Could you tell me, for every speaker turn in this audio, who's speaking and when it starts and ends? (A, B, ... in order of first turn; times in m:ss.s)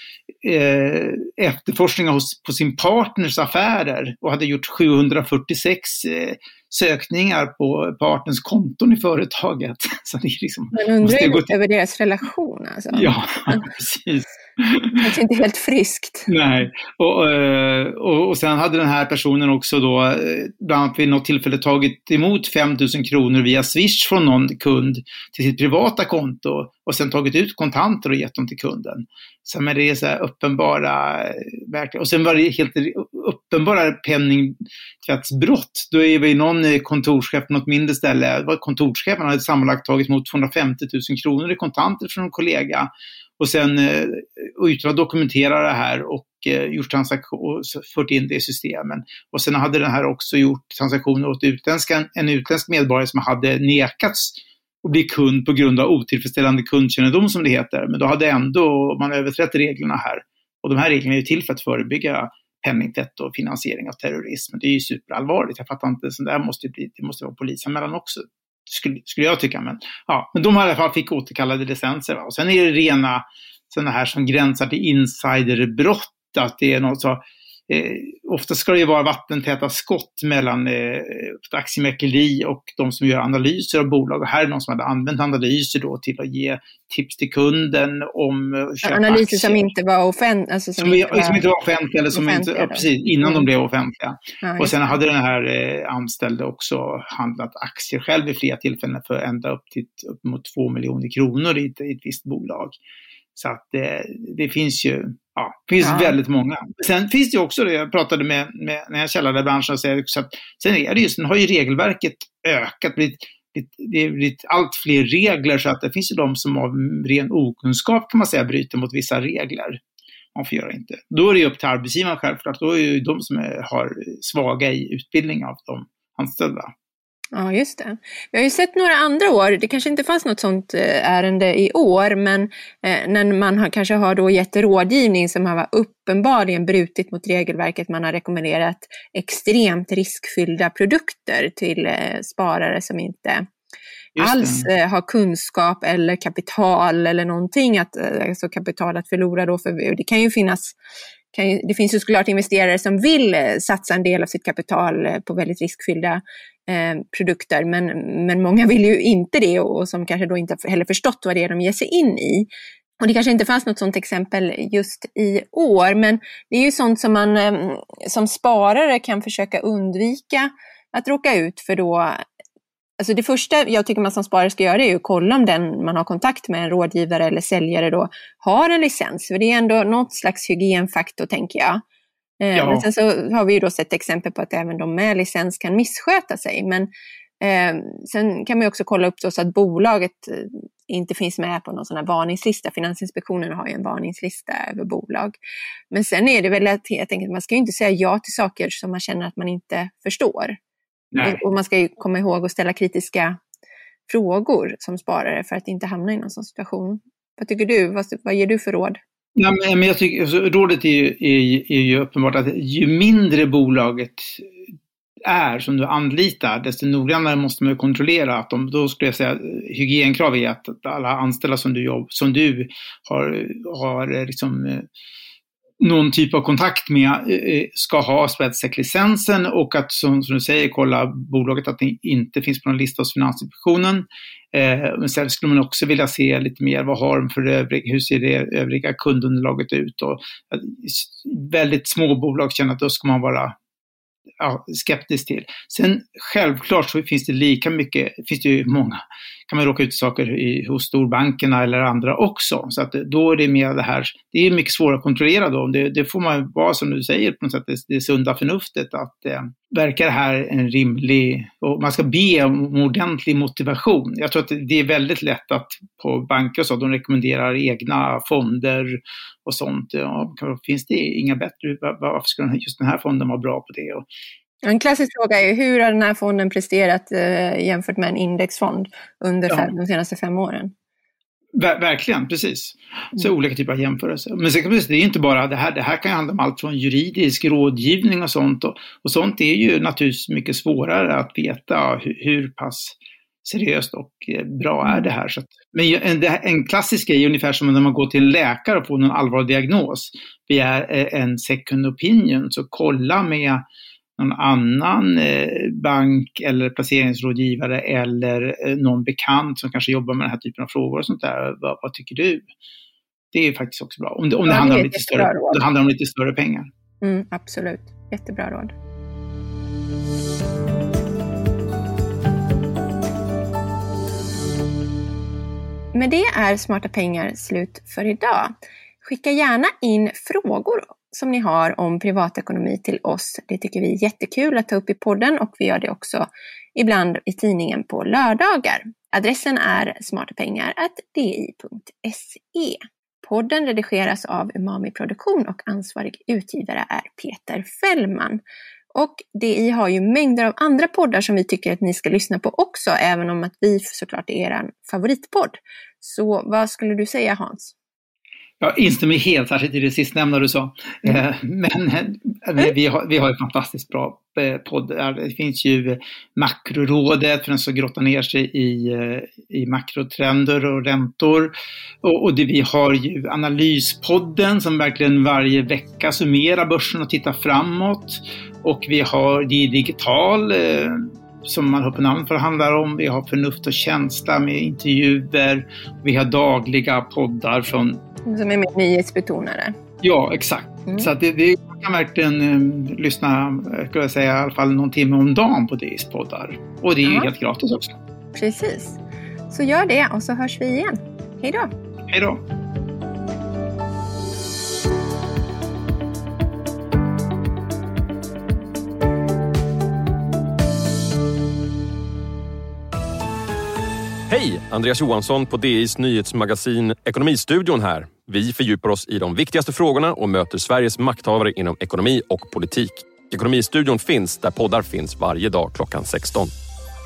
0:00.4-0:11.5 A
0:10.7-0:13.7 B
0:12.9-0:15.1 A
0:15.0-0:16.3 B
0:16.3-1:29.7 A
1:28.8-1:31.4 B
1:30.8-1:42.8 A
1:32.1-1:33.4 B
1:34.4-1:34.8 B
1:43.3-1:59.8 A
1:45.8-1:46.1 B
2:00.3-2:06.7 A
2:07.3-2:23.5 B
2:24.2-2:24.7 A
2:24.2-2:30.8 B
2:31.3-2:42.5 B
2:43.0-2:52.2 B
2:53.0-3:01.8 B
3:02.4-3:15.4 B
3:02.5-3:02.8 A
3:15.9-3:20.6 B
3:21.1-3:21.4 A
3:21.2-3:23.4 B
3:24.1-3:29.0 B
3:29.4-3:34.5 A
3:35.2-3:44.9 A
3:45.8-4:03.5 A
4:04.4-4:34.0 A
4:34.6-4:40.7 B
4:41.5-5:03.6 A
5:04.2-5:12.5 A
5:13.3-5:16.7 A
5:14.4-5:15.6 B
5:17.0-5:18.7 B
5:25.9-5:48.4 B
5:48.9-5:57.7 B
5:58.6-6:28.0 A
6:28.2-6:29.8 B
6:30.0-6:38.0 A
6:37.0-6:37.3 B
6:38.3-6:39.0 B
6:39.5-6:41.7 B
6:42.1-6:42.4 A
6:54.3-7:06.5 C